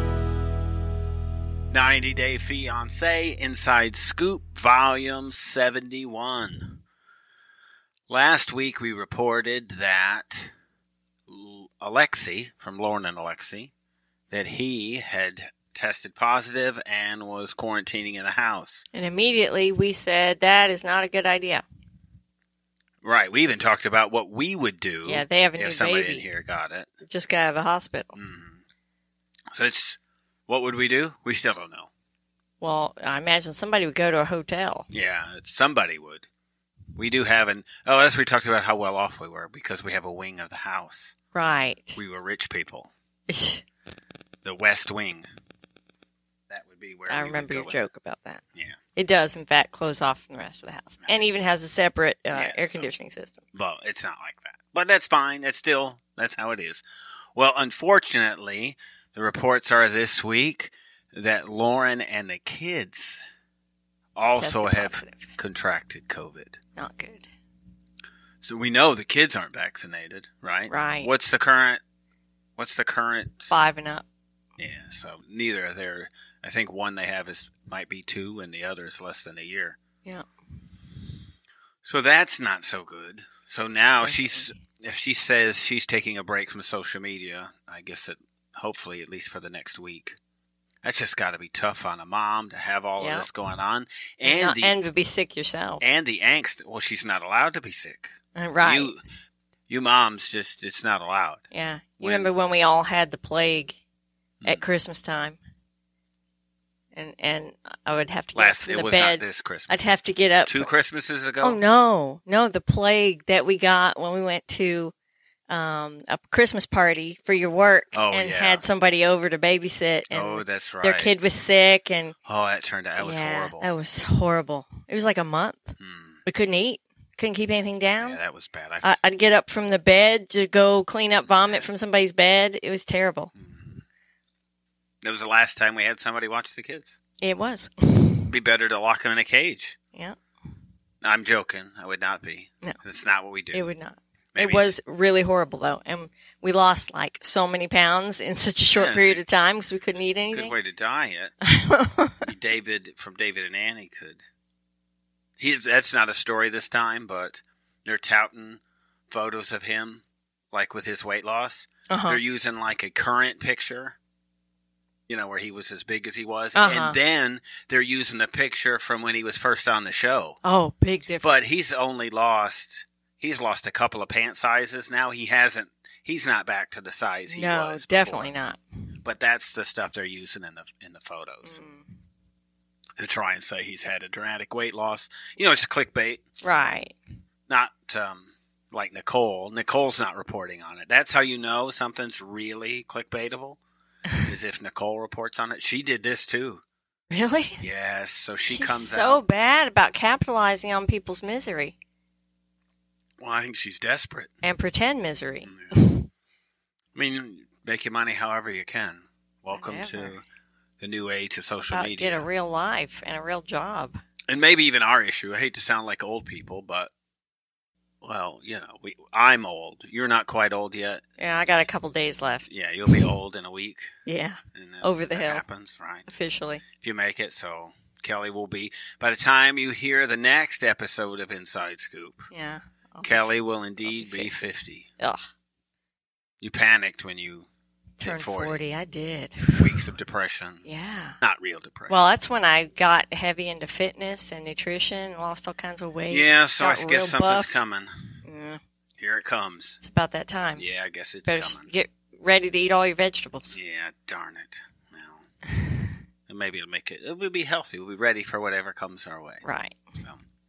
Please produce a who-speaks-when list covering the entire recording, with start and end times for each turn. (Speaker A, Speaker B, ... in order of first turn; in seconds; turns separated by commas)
Speaker A: 1.7-6.8, Speaker A: 8.1-10.5, Speaker A: 11.3-13.7, Speaker A: 14.3-18.8, Speaker B: 18.9-21.6, Speaker A: 23.0-26.9, Speaker B: 25.1-26.2, Speaker B: 27.1-28.1, Speaker A: 28.1-28.6, Speaker A: 29.5-31.9, Speaker B: 32.6-34.9, Speaker A: 34.9-36.3, Speaker A: 37.0-41.1, Speaker B: 41.3-42.0, Speaker A: 41.9-42.9, Speaker B: 43.3-43.6, Speaker A: 44.4-45.3, Speaker A: 46.5-47.9, Speaker B: 47.1-48.4, Speaker B: 49.0-53.4, Speaker A: 51.0-51.3, Speaker A: 52.3-52.9, Speaker A: 53.5-56.8, Speaker A: 57.3-63.2, Speaker A: 64.2-66.6, Speaker B: 64.3-65.3, Speaker B: 66.8-67.3, Speaker A: 68.4-71.8, Speaker B: 70.7-71.1, Speaker A: 72.6-73.5, Speaker B: 73.5-74.0, Speaker A: 74.6-79.8, Speaker A: 81.8-90.2, Speaker B: 84.0-84.3, Speaker A: 90.8-94.7, Speaker B: 93.0-93.3, Speaker B: 94.2-95.8, Speaker A: 95.8-99.0, Speaker B: 98.3-99.0, Speaker A: 99.7-101.4, Speaker B: 101.5-103.8, Speaker A: 102.0-102.3, Speaker A: 104.4-104.7, Speaker B: 104.4-105.4, Speaker B: 106.9-110.7, Speaker A: 108.3-109.9, Speaker A: 110.5-111.6, Speaker B: 111.4-114.9, Speaker B: 115.5-122.1, Speaker A: 117.9-118.6, Speaker A: 120.1-121.1, Speaker A: 122.2-123.7, Speaker B: 123.0-125.7, Speaker A: 125.8-126.2, Speaker B: 126.2-128.2, Speaker A: 128.0-129.0, Speaker B: 128.8-133.3, Speaker A: 131.2-131.7, Speaker A: 133.3-133.8, Speaker A: 135.0-137.0, Speaker B: 137.2-138.3, Speaker A: 138.3-139.8, Speaker A: 141.0-143.7, Speaker B: 143.5-150.6, Speaker A: 144.3-144.7, Speaker A: 148.8-149.2, Speaker A: 150.3-151.3, Speaker B: 151.4-152.2, Speaker A: 152.2-154.2, Speaker A: 155.4-163.9, Speaker B: 161.9-162.2, Speaker A: 165.1-170.4, Speaker B: 166.5-167.0, Speaker B: 170.4-171.3, Speaker A: 171.2-178.3, Speaker B: 177.3-178.6, Speaker A: 179.0-181.6, Speaker B: 181.4-181.9, Speaker A: 183.0-186.2, Speaker B: 186.4-187.0, Speaker A: 187.5-193.6, Speaker A: 194.2-196.6, Speaker B: 197.1-197.6, Speaker A: 197.6-199.2, Speaker B: 198.4-201.7, Speaker A: 203.2-204.3, Speaker B: 204.4-206.1, Speaker A: 205.4-205.7, Speaker A: 206.9-210.2, Speaker B: 209.5-210.2, Speaker A: 210.8-212.3, Speaker B: 211.7-214.0, Speaker A: 214.3-216.9, Speaker A: 218.0-221.0, Speaker B: 221.2-223.1, Speaker A: 222.5-223.9, Speaker B: 224.1-225.4, Speaker A: 224.5-226.1, Speaker B: 226.1-226.6, Speaker A: 226.7-232.3, Speaker B: 232.3-233.2, Speaker A: 233.0-234.9, Speaker B: 233.8-234.3, Speaker B: 235.0-235.2, Speaker A: 236.4-237.5, Speaker B: 238.0-239.8, Speaker A: 238.0-238.7, Speaker A: 239.6-240.7, Speaker B: 240.7-241.2, Speaker A: 241.2-242.0, Speaker B: 241.9-247.6, Speaker A: 246.1-248.1, Speaker B: 248.2-248.6, Speaker A: 249.0-249.8, Speaker B: 249.8-250.6, Speaker A: 250.6-251.7, Speaker B: 251.3-253.6, Speaker A: 253.5-255.3, Speaker A: 256.3-259.4, Speaker B: 259.4-259.8, Speaker A: 259.9-260.2